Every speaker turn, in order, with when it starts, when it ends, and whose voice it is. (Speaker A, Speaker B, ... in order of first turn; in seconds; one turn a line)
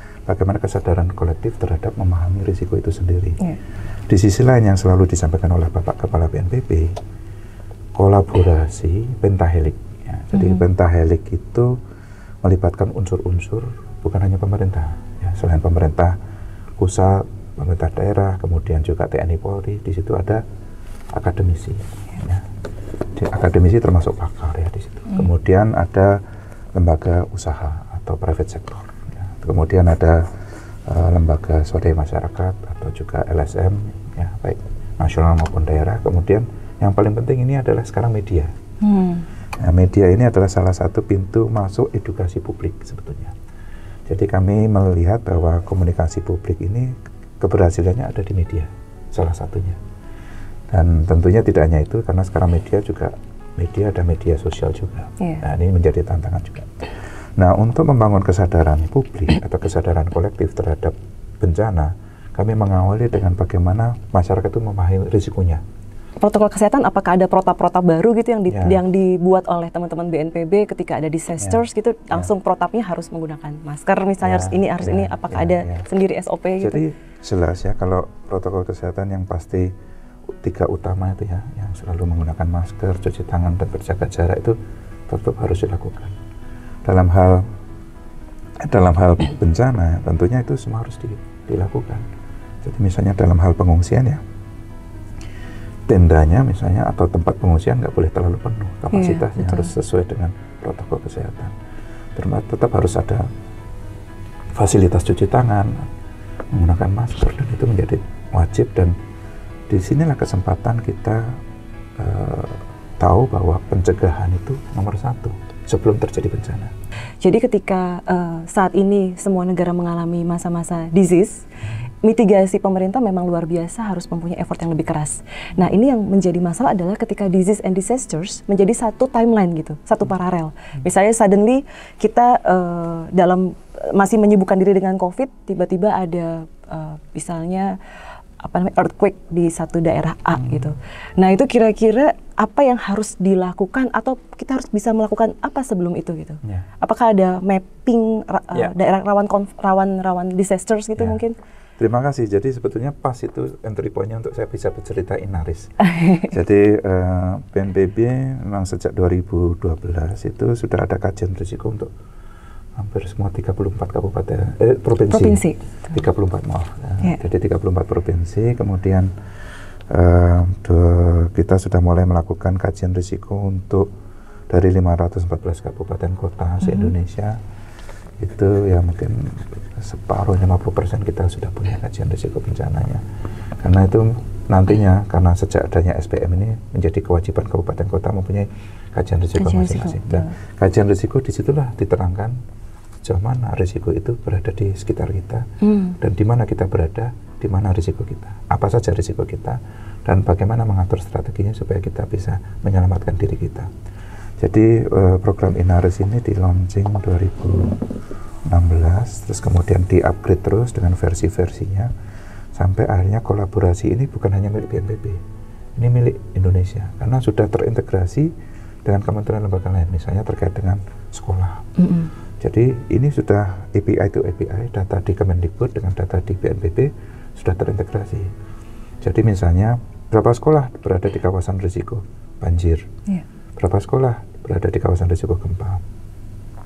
Speaker A: 0.3-3.5
Speaker A: 4.1-6.9
Speaker A: 8.0-11.8
Speaker B: 10.3-10.6
Speaker A: 12.4-16.1
Speaker A: 16.8-20.4
Speaker A: 21.1-22.4
Speaker A: 23.1-26.2
Speaker A: 26.7-30.2
Speaker A: 30.9-38.5
Speaker B: 38.8-39.2
Speaker A: 39.6-43.3
Speaker A: 44.1-49.8
Speaker A: 50.7-56.7
Speaker A: 57.4-65.6
Speaker B: 66.2-76.8
Speaker A: 68.5-68.8
Speaker A: 71.4-72.3
Speaker A: 74.2-75.8
Speaker A: 76.6-79.7
Speaker A: 80.3-84.5
Speaker A: 85.1-86.1
Speaker A: 86.8-87.5
Speaker A: 88.6-92.0
Speaker A: 92.6-94.2
Speaker A: 95.9-101.5
Speaker B: 98.9-99.7
Speaker A: 102.2-103.3
Speaker A: 104.5-105.8
Speaker A: 106.5-108.9
Speaker A: 109.7-111.4
Speaker A: 112.0-116.7
Speaker B: 117.2-121.4
Speaker B: 122.0-137.8
Speaker B: 138.4-151.3
Speaker A: 150.9-151.2
Speaker A: 151.8-161.9
Speaker A: 162.8-169.1
Speaker B: 165.1-165.6
Speaker A: 169.9-173.9
Speaker A: 174.5-177.4
Speaker B: 176.6-176.9
Speaker A: 178.2-183.0
Speaker A: 183.6-192.4
Speaker B: 189.3-190.3
Speaker A: 193.0-195.5
Speaker B: 195.6-196.0
Speaker A: 196.0-203.7
Speaker A: 204.4-207.8
Speaker A: 208.5-211.9
Speaker A: 212.5-215.2
Speaker A: 215.8-218.3
Speaker A: 218.8-221.7
Speaker B: 221.8-222.1
Speaker A: 222.4-228.3
Speaker A: 229.0-232.9
Speaker A: 233.6-235.8